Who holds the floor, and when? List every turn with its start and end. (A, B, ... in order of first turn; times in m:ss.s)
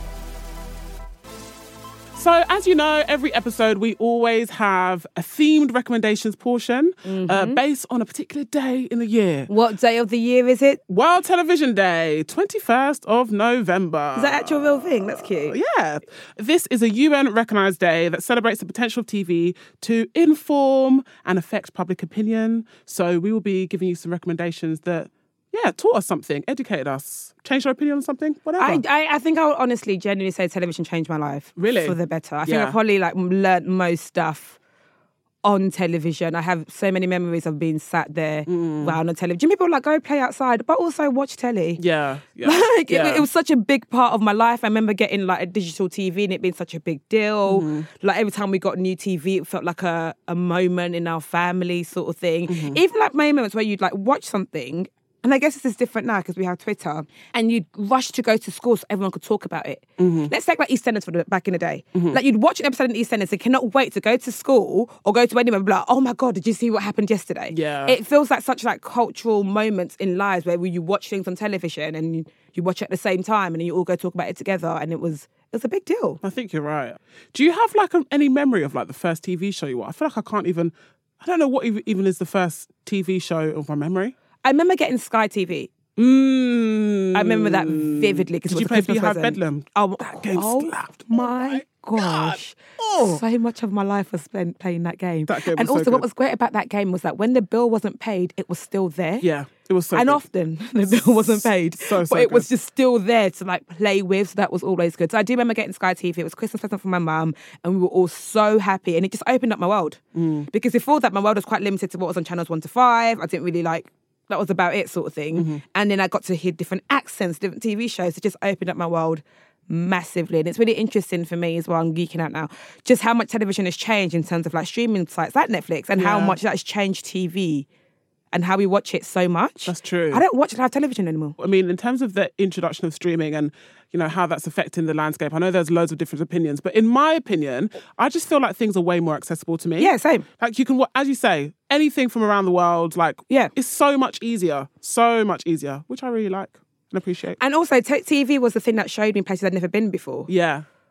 0:02.1-0:09.5 A
0:07.0-0:07.6 B
0:09.5-0:10.8 B
0:10.9-0:28.8 A
0:14.2-0:15.6 B
0:28.6-0:34.6 B
0:31.6-0:32.8 A
0:35.4-0:41.8 B
0:38.5-0:39.0 A
0:41.8-0:43.2 A
0:42.4-1:16.2 B
0:47.4-0:47.8 A
0:52.5-0:52.8 A
1:00.0-1:00.3 A
1:07.5-1:08.0 A
1:16.2-1:24.1 A
1:24.4-1:25.7 B
1:26.0-1:33.2 A
1:27.1-1:39.2 B
1:35.3-1:36.0 A
1:39.2-1:40.2 A
1:39.9-2:07.7 B
1:40.9-1:42.5 A
1:50.1-1:50.5 A
1:55.4-1:55.6 A
2:06.0-2:06.4 A
2:08.3-2:11.4 B
2:09.7-2:10.2 A
2:11.4-2:27.4 A
2:19.8-2:20.2 B
2:27.4-2:30.3 B
2:30.3-2:30.6 A